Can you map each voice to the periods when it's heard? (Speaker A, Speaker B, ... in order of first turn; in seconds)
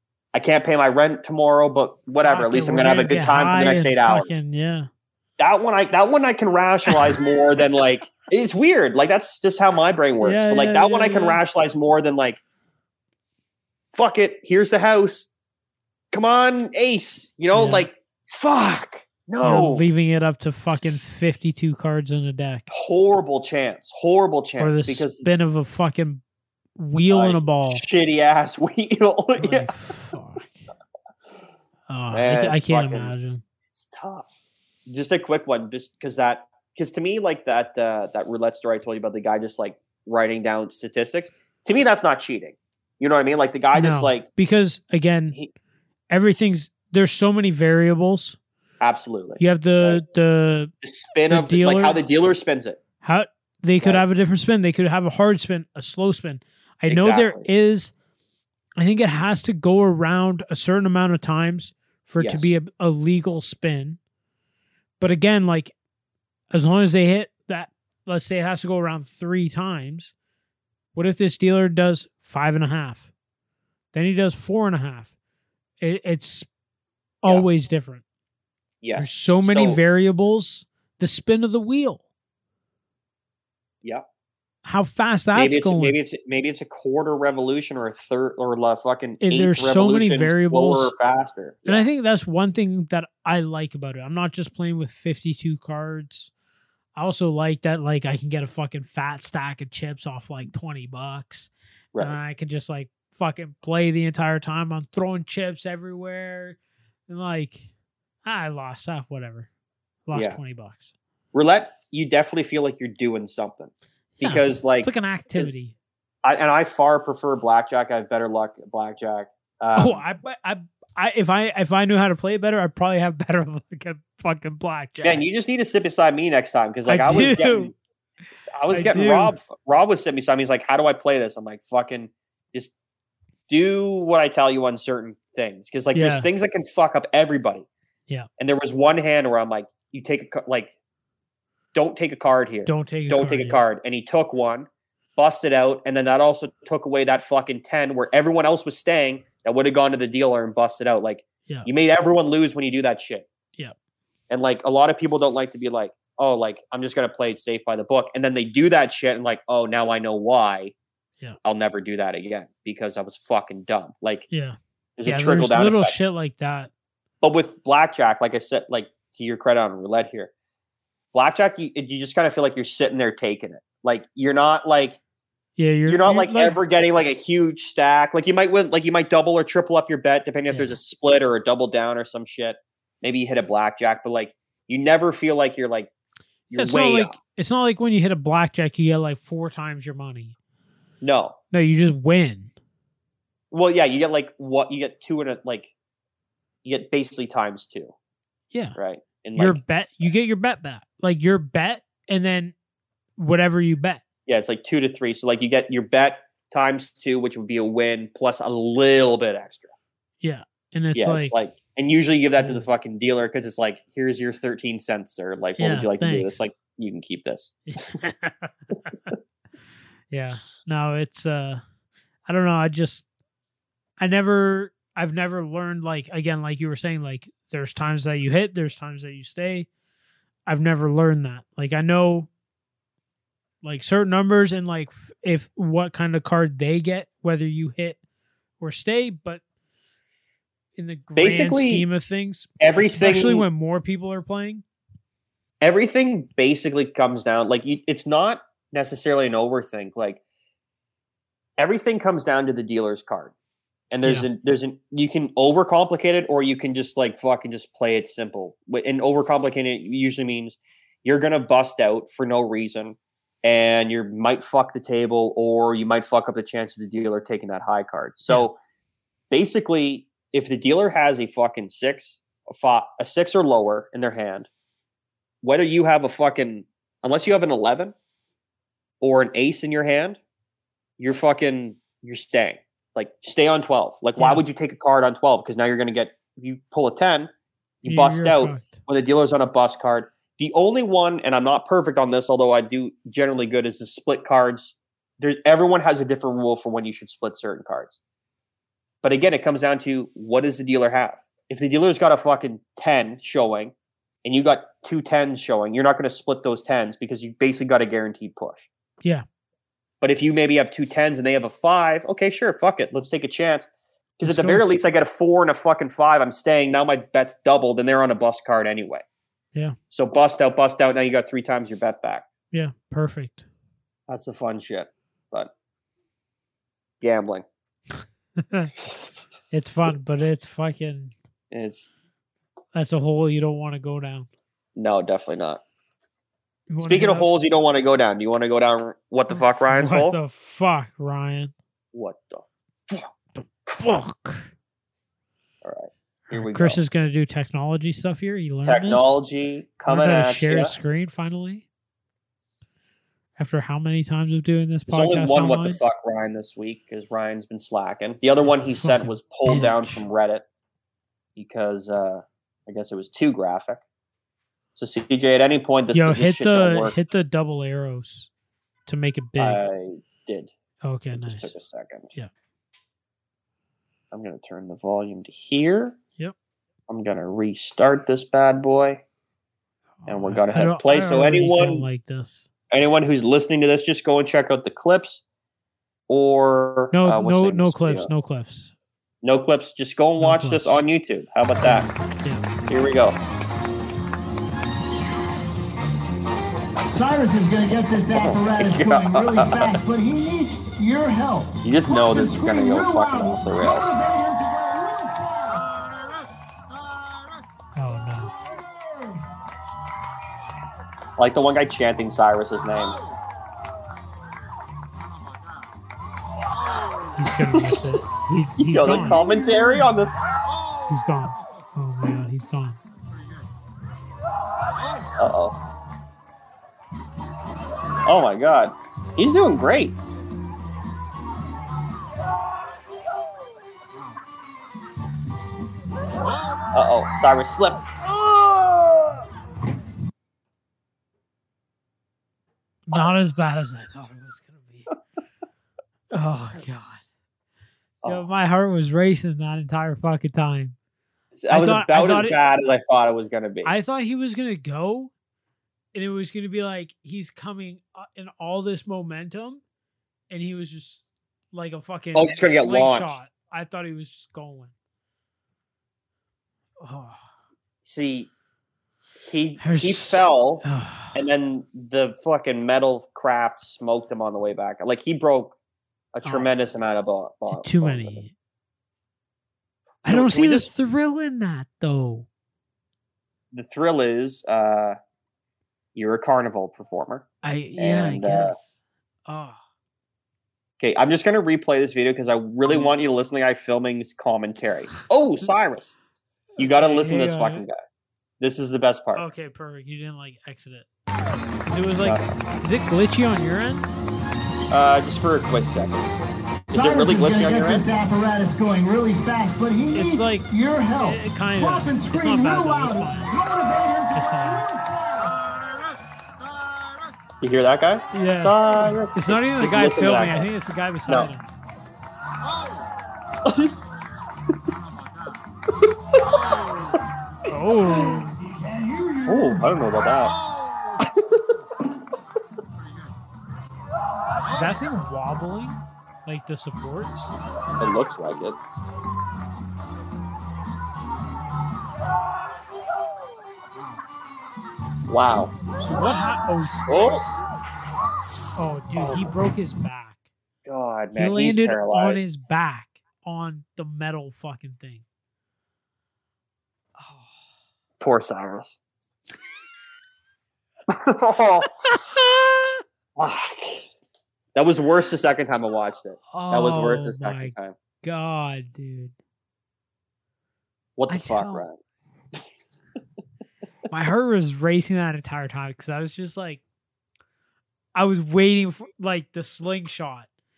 Speaker A: 0.3-4.4, 5.4-12.4, 13.9-15.3, 16.1-19.8, 22.7-25.3, 27.1-29.7, 32.1-33.1, 33.7-34.3, 34.9-44.3, 48.8-50.0, 50.8-52.8, 56.9-57.5, 62.2-62.5, 78.8-79.8, 85.3-91.8, 110.1-110.4, 111.3-115.5, 116.2-120.0, 125.0-127.7, 128.6-132.7, 133.5-137.7, 138.4-140.7, 141.7-153.3, 154.3-160.7, 161.4-164.3, 165.0-165.9, 167.2-170.3, 171.1-175.0, 175.9-185.9, 186.5-187.2, 191.0-191.4, 193.5-195.7, 196.6-197.9, 198.8-200.1, 204.2-209.7, 210.9-217.6, 241.2-241.8, 242.6-243.5, 245.6-250.2, 251.6-253.3, 253.9-268.6, 269.3-274.5, 275.4-277.9, 279.0-280.2, 281.0-287.3, 287.8-298.0, 299.0-303.7, 304.2-308.7, 310.0-319.0, 319.9-322.2, 324.1-325.5, 327.0-327.4, 331.5-331.9, 334.8-335.6, 336.8-340.2, 341.9-343.1, 345.6-346.8, 348.6-350.8, 354.9-360.4, 361.4-363.8, 364.8-366.9, 369.4-370.5, 371.1-372.1, 374.1-376.0, 376.9-379.0, 380.1-381.9, 382.7-385.2, 386.1-388.1, 389.2-391.9, 392.7-393.2, 398.1-399.8, 401.6-403.9, 411.2-413.0, 417.4-418.0, 418.6-420.2, 425.2-425.6, 428.0-430.0, 436.7-439.2, 451.3-453.7, 462.1-463.2, 467.8-468.3, 469.2-475.6, 476.1-478.2, 480.0-480.7, 483.5-485.0, 485.9-487.2, 487.8-488.6, 490.8-496.0, 496.6-497.8, 498.4-499.2, 502.0-502.4, 504.7-506.1, 506.7-507.9, 517.4-520.5, 523.4-523.8, 529.2-530.4, 531.0-531.5, 537.8-538.6, 545.1-545.5, 546.9-547.2, 549.0-549.3, 550.6-552.2, 558.0-558.8, 560.9-561.8, 563.2-563.9, 564.5-567.8, 571.0-571.8
Speaker B: 2.2-4.9, 10.2-11.4, 17.5-17.9, 19.4-22.7, 24.6-26.2, 26.8-27.8, 29.4-30.6, 31.9-33.4, 43.7-45.4, 46.1-48.4, 49.4-50.7, 51.3-52.0, 53.0-57.9, 58.8-64.0, 65.0-65.7, 66.5-70.1, 70.9-73.1, 73.9-75.1, 75.8-76.5, 77.2-78.0, 78.9-82.0, 84.6-86.0, 89.2-90.9, 91.7-96.3, 97.0-107.7, 108.2-109.5, 110.1-110.9, 114.2-115.7, 119.8-125.2, 126.8-127.7, 128.7-129.4, 135.9-136.3, 142.7-143.6, 164.3-166.7, 175.6-176.6, 180.5-180.8, 186.5-190.3, 191.5-192.5, 199.3-202.5, 203.2-204.0, 210.2-211.3, 212.4-212.6, 215.6-216.4, 217.7-219.1, 220.1-221.6, 222.3-223.0, 224.0-229.7, 230.5-232.3, 233.6-238.0, 238.6-239.4, 240.8-244.6, 254.0-254.3, 287.9-288.8, 314.2-314.6, 322.5-323.4, 328.4-328.7, 329.5-331.1, 332.7-334.3, 336.7-337.3, 339.3-341.5, 343.4-344.5, 346.3-349.2, 349.9-351.6, 353.4-355.8, 358.6-360.1, 365.9-368.3, 368.9-369.6, 370.8-371.5, 380.0-382.5, 386.9-388.7, 390.2-390.8, 407.8-408.3, 417.1-419.2, 420.9-422.8, 442.9-444.9, 446.1-447.0, 448.0-450.8, 451.5-452.4, 453.6-455.1, 455.9-459.6, 460.3-464.7, 466.8-467.2, 469.6-471.1, 476.2-476.5, 477.5-478.3, 480.0-482.3, 487.4-488.7, 489.3-489.6, 496.6-497.6, 499.1-500.9, 501.6-503.9, 509.9-513.3, 514.1-514.6, 518.1-521.5, 527.5-528.4, 534.5-537.3, 545.8-547.4, 548.6-550.2, 551.1-555.0, 566.3-569.1, 571.1-571.7, 573.9-576.6, 577.9-580.3
Speaker C: 396.8-405.7, 419.2-419.5, 506.6-515.4, 528.1-529.8